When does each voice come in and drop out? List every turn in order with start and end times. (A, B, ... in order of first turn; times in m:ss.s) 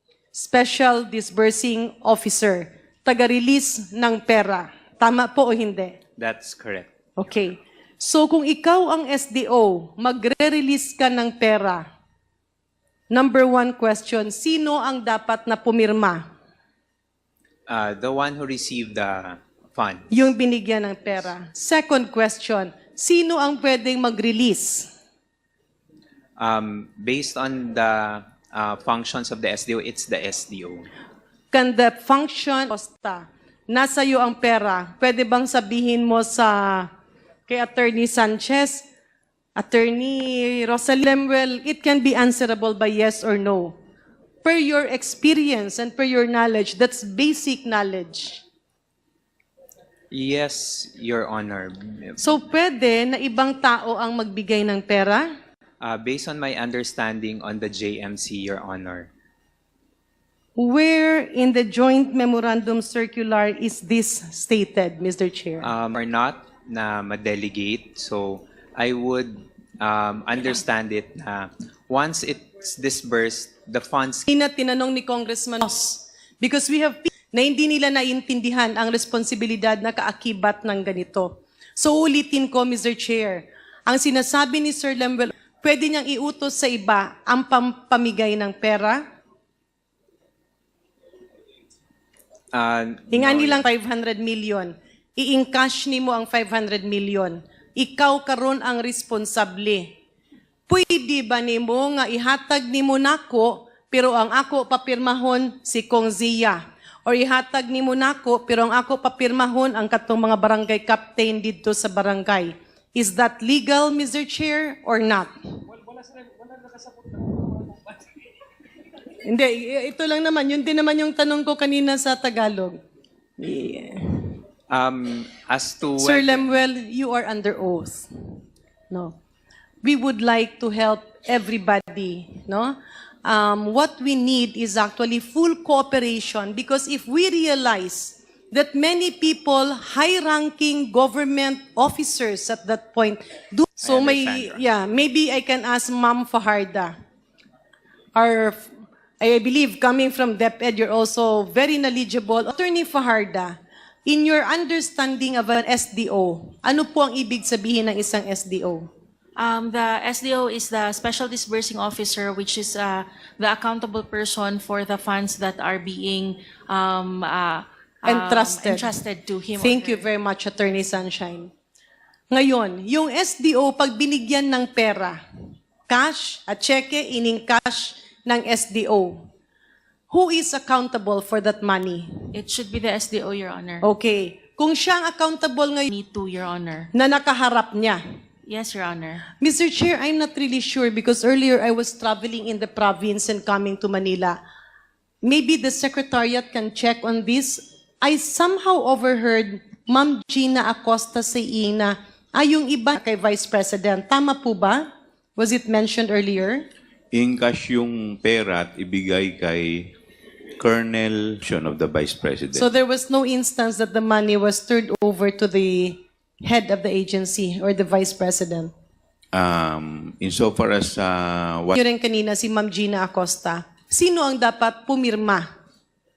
0:00.3-0:06.0 A
0:06.2-0:06.9 B
0:07.2-0:11.9 A
0:13.1-0:16.3 A
0:17.7-0:20.3 B
0:20.1-0:24.9 A
0:26.4-0:30.9 B
0:31.5-0:36.9 A
0:37.5-0:38.9 A
0:39.6-0:43.8 A
0:44.4-0:48.4 A
0:50.1-0:52.4 B
0:52.2-0:55.3 A
0:55.8-0:59.1 B
1:00.6-1:05.7 A
1:05.6-1:14.3 B
1:14.3-1:29.0 A
1:32.5-1:33.6 B
1:33.1-1:39.9 A
1:40.7-1:55.3 A
1:57.0-1:57.8 A
1:59.2-2:02.8 A
2:03.4-2:04.4 A
2:04.7-2:06.5 B
2:06.0-2:08.1 A
2:08.9-2:09.2 A
2:09.8-2:27.0 A
2:23.8-2:24.6 B
2:28.2-2:38.9 A
2:39.4-2:50.1 C
2:48.0-2:48.9 A
2:49.6-2:51.5 A
2:52.3-2:55.2 A
2:55.9-2:59.3 A
3:00.1-3:02.1 A
3:02.3-3:03.9 C
3:03.8-3:05.9 A
3:05.9-3:06.9 C
3:06.9-3:08.0 A
3:08.5-3:09.3 C
3:09.4-3:14.4 A
3:15.2-3:26.7 A
3:27.1-3:29.9 D
3:30.6-3:32.7 D
3:32.5-3:38.7 A
3:39.3-3:41.8 D
3:41.8-3:45.5 A